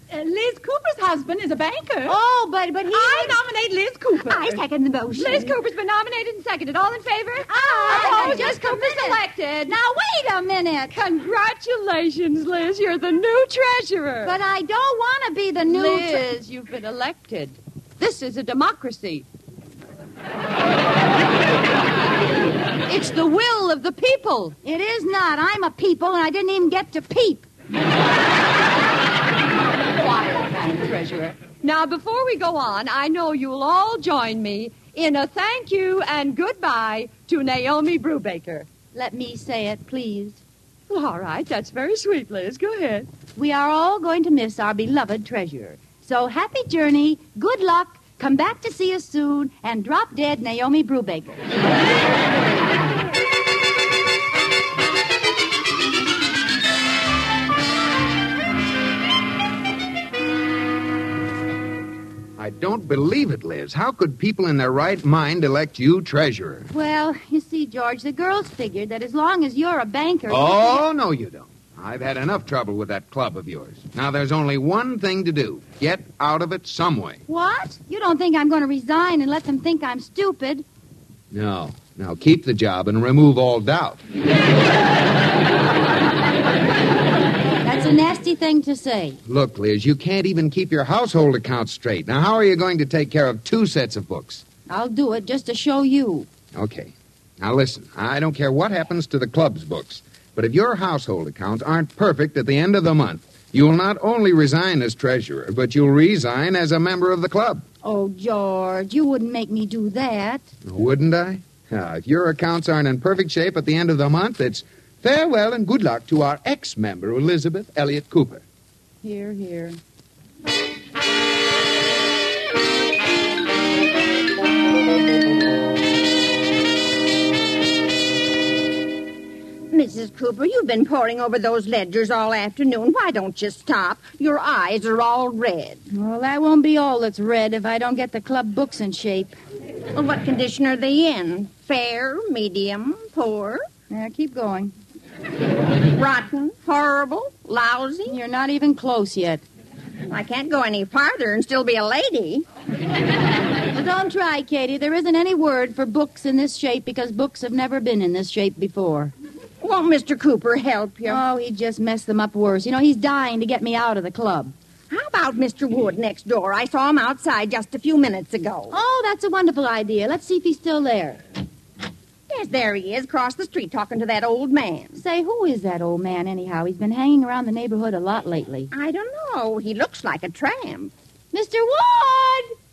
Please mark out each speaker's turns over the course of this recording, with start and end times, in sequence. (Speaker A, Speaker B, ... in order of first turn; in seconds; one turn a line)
Speaker A: 0.1-2.2
Speaker B: 2.1-3.4
Speaker A: 2.9-4.6
Speaker C: 4.3-5.6
Speaker D: 5.2-9.8
Speaker B: 7.5-11.0
Speaker A: 7.9-8.4
Speaker C: 7.9-8.4
Speaker D: 10.9-14.3
Speaker B: 14.2-16.2
Speaker D: 15.7-19.2
Speaker D: 22.9-24.6
Speaker B: 24.6-27.5
Speaker D: 29.9-38.7
Speaker B: 39.0-40.4
Speaker D: 40.9-43.1
Speaker B: 43.4-51.4
Speaker E: 62.4-66.7
Speaker B: 66.7-70.9
Speaker E: 70.3-77.2
Speaker B: 77.3-80.7
Speaker E: 81.3-84.0
Speaker B: 87.6-89.2
Speaker E: 89.2-94.4
Speaker B: 94.7-96.3
Speaker E: 96.5-107.7
Speaker B: 107.8-110.5
Speaker E: 110.7-118.4
Speaker B: 119.0-119.8
Speaker C: 129.7-135.8
Speaker B: 135.9-139.3
Speaker C: 139.9-143.7
Speaker B: 143.9-144.7
Speaker C: 145.9-148.2
Speaker B: 148.1-149.4
Speaker C: 150.1-152.4
Speaker B: 153.7-159.1
Speaker C: 159.6-161.2
Speaker B: 161.1-164.5
Speaker C: 164.9-168.7
Speaker B: 168.7-171.2
Speaker C: 172.3-175.0
Speaker B: 174.9-178.7
Speaker C: 178.7-180.9
Speaker B: 181.3-182.5